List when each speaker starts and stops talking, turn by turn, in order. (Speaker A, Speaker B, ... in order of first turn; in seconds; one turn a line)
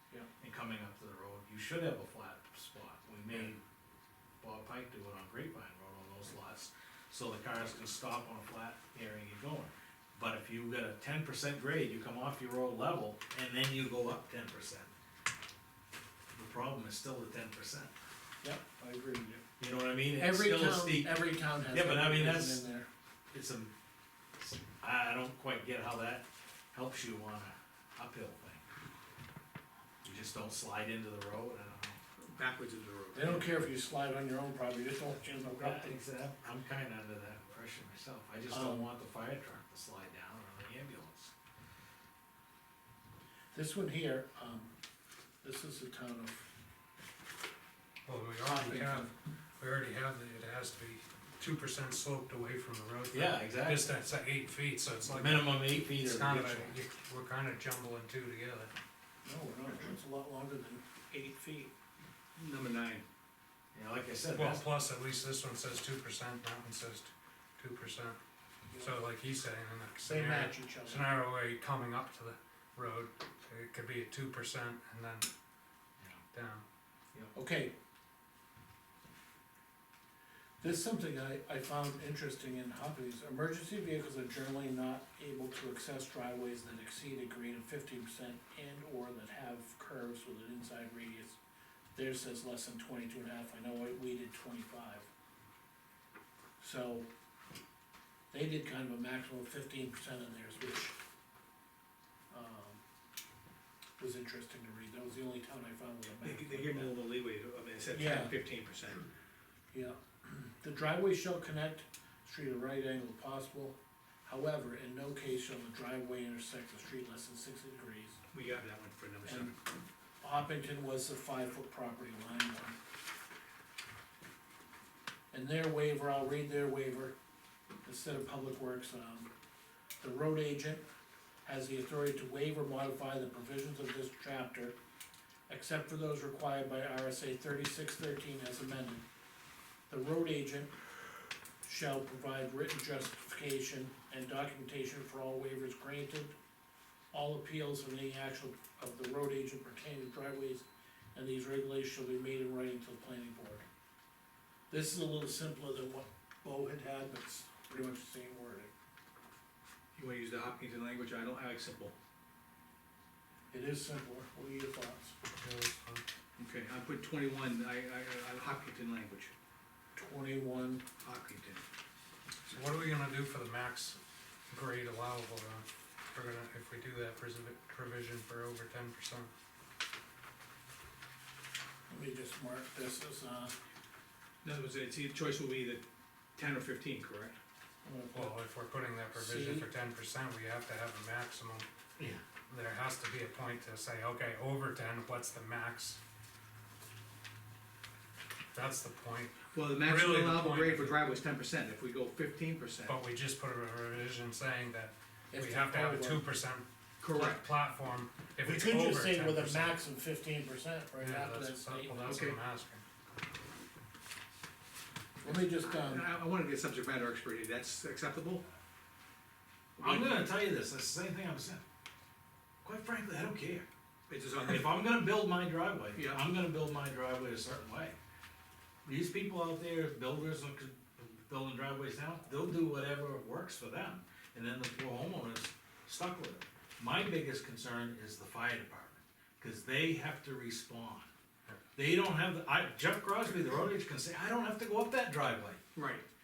Speaker A: 0.4-3.6
Speaker A: 4.4-14.9
Speaker A: 16.4-17.9
Speaker B: 18.4-19.4
Speaker A: 19.6-22.6
Speaker B: 20.2-22.9
Speaker A: 23.3-23.7
Speaker A: 24.4-28.6
Speaker A: 30.0-32.0
Speaker C: 32.2-33.5
Speaker B: 33.1-36.0
Speaker A: 35.5-41.3
Speaker B: 38.5-38.9
Speaker B: 43.5-44.7
Speaker B: 45.4-46.5
Speaker D: 48.1-58.7
Speaker B: 48.4-49.1
Speaker A: 53.1-53.9
Speaker A: 55.1-56.7
Speaker B: 59.2-61.7
Speaker C: 62.4-63.0
Speaker A: 63.7-64.7
Speaker D: 64.3-68.2
Speaker B: 68.7-69.0
Speaker D: 68.8-75.3
Speaker B: 70.0-71.1
Speaker D: 76.3-76.6
Speaker B: 77.3-77.7
Speaker B: 80.6-91.4
Speaker B: 92.0-95.1
Speaker B: 96.6-97.1
Speaker B: 98.3-101.0
Speaker B: 102.3-102.8
Speaker B: 104.0-107.0
Speaker C: 106.2-109.1
Speaker B: 107.9-108.3
Speaker B: 109.7-118.2
Speaker C: 118.3-119.5
Speaker B: 119.2-119.5
Speaker B: 120.2-122.8
Speaker B: 125.3-127.2
Speaker B: 127.8-129.3
Speaker B: 130.0-130.8
Speaker B: 131.4-134.8
Speaker B: 135.5-139.0
Speaker B: 139.9-140.7
Speaker B: 141.6-146.3
Speaker B: 147.1-153.7
Speaker B: 154.7-158.7
Speaker C: 160.0-161.9
Speaker B: 163.5-165.2
Speaker D: 165.3-166.0
Speaker C: 166.4-169.3
Speaker B: 170.0-170.8
Speaker C: 171.0-171.6
Speaker D: 172.5-174.0
Speaker D: 174.5-179.3
Speaker B: 181.9-183.6
Speaker C: 184.4-185.8
Speaker C: 186.4-187.4
Speaker B: 187.8-188.5
Speaker D: 188.1-191.7
Speaker B: 189.1-189.7
Speaker D: 192.5-196.0
Speaker D: 198.5-201.0
Speaker C: 199.5-203.0
Speaker D: 202.9-209.8
Speaker B: 205.3-206.2
Speaker C: 207.0-207.5
Speaker B: 208.4-212.2
Speaker D: 211.0-212.8
Speaker C: 212.1-212.4
Speaker B: 215.2-216.1
Speaker C: 215.2-218.4
Speaker C: 219.8-220.3
Speaker A: 219.8-221.6
Speaker A: 222.6-223.7
Speaker C: 224.1-224.8
Speaker A: 224.4-228.0
Speaker C: 225.9-226.2
Speaker A: 228.8-241.1
Speaker A: 241.8-245.6
Speaker C: 245.8-246.1